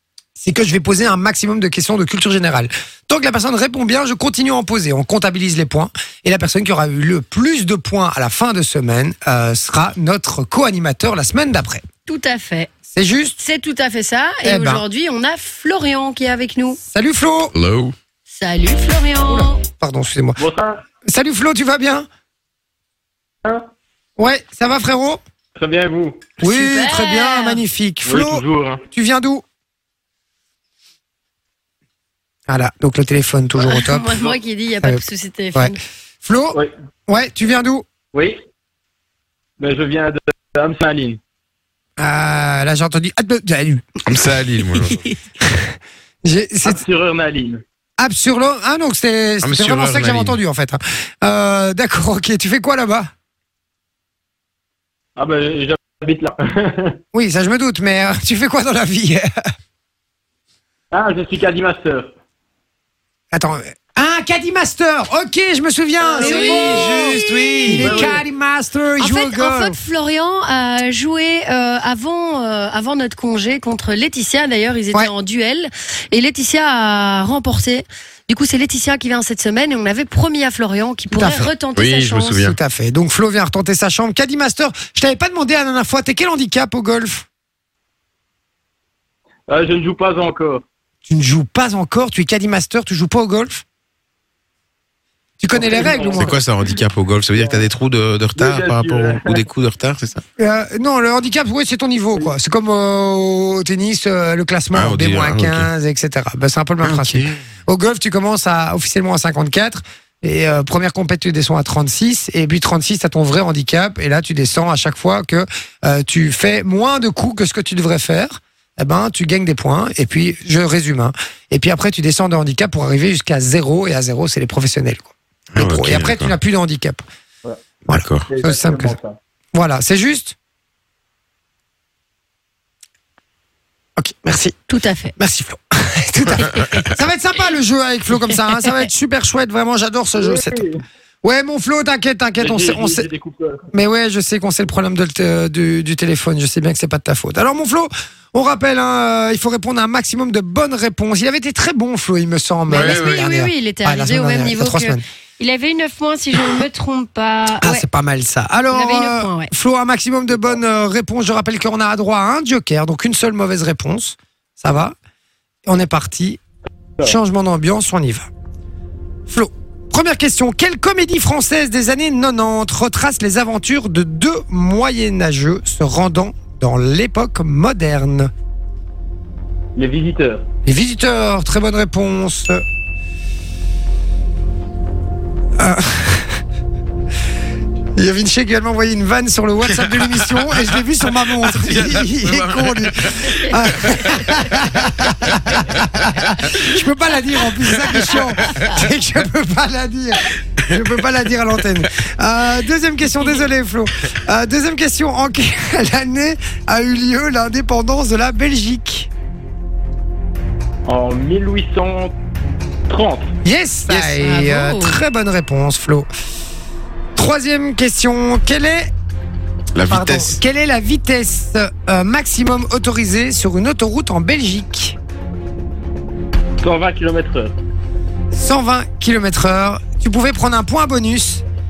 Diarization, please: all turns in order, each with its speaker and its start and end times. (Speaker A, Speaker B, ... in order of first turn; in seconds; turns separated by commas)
Speaker A: 0.4-11.8, Speaker B: 12.1-12.7, Speaker A: 12.9-13.4, Speaker B: 13.4-16.8, Speaker A: 14.4-14.8, Speaker A: 16.9-17.6, Speaker C: 17.5-17.9, Speaker B: 18.3-19.6, Speaker A: 19.2-20.4, Speaker D: 20.4-20.8, Speaker A: 21.1-22.1, Speaker A: 24.2-25.2, Speaker D: 25.6-26.3, Speaker A: 26.4-29.4, Speaker B: 26.4-27.6, Speaker D: 28.1-28.8, Speaker A: 32.5-34.1, Speaker B: 33.6-35.8, Speaker A: 35.5-37.9, Speaker D: 38.1-38.4, Speaker D: 39.6-41.2, Speaker A: 42.0-44.0, Speaker C: 44.1-45.0, Speaker A: 45.4-46.8, Speaker D: 46.6-47.6, Speaker A: 48.0-53.1, Speaker C: 49.4-50.4, Speaker D: 55.2-57.0, Speaker A: 57.1-59.3, Speaker D: 60.9-62.1, Speaker A: 63.3-69.8, Speaker D: 66.0-66.4, Speaker B: 66.2-67.1, Speaker C: 66.2-68.1, Speaker D: 67.8-68.2, Speaker B: 69.0-82.5, Speaker A: 81.1-81.5, Speaker C: 81.8-82.6, Speaker A: 82.4-87.2, Speaker D: 89.5-90.6, Speaker A: 91.1-93.6, Speaker A: 95.4-96.4, Speaker D: 95.5-96.4, Speaker C: 96.0-100.2, Speaker D: 98.4-99.4, Speaker A: 100.4-127.0, Speaker C: 104.7-105.7, Speaker C: 106.8-107.4, Speaker C: 125.5-126.3, Speaker A: 127.9-128.9, Speaker C: 128.0-128.3, Speaker D: 128.3-129.2, Speaker A: 129.5-130.3, Speaker A: 134.0-134.6, Speaker B: 134.7-135.1, Speaker A: 135.2-140.6, Speaker B: 136.4-136.8, Speaker B: 138.3-138.9, Speaker D: 140.2-140.8, Speaker A: 141.2-143.1, Speaker D: 142.4-143.7, Speaker A: 143.7-155.0, Speaker C: 152.7-153.2, Speaker B: 152.7-157.8, Speaker A: 157.6-165.0, Speaker B: 158.7-159.5, Speaker A: 165.7-166.4, Speaker A: 167.0-168.3, Speaker A: 169.3-178.3, Speaker D: 179.8-180.4, Speaker A: 180.7-182.6, Speaker A: 185.6-186.4, Speaker A: 188.0-209.1, Speaker C: 189.6-196.3, Speaker C: 197.8-198.7, Speaker D: 210.9-212.1, Speaker D: 212.9-213.3, Speaker A: 213.4-216.1, Speaker B: 213.9-215.0, Speaker A: 217.2-218.9, Speaker C: 219.7-220.4, Speaker A: 219.9-225.0, Speaker D: 226.6-227.5, Speaker A: 228.3-231.4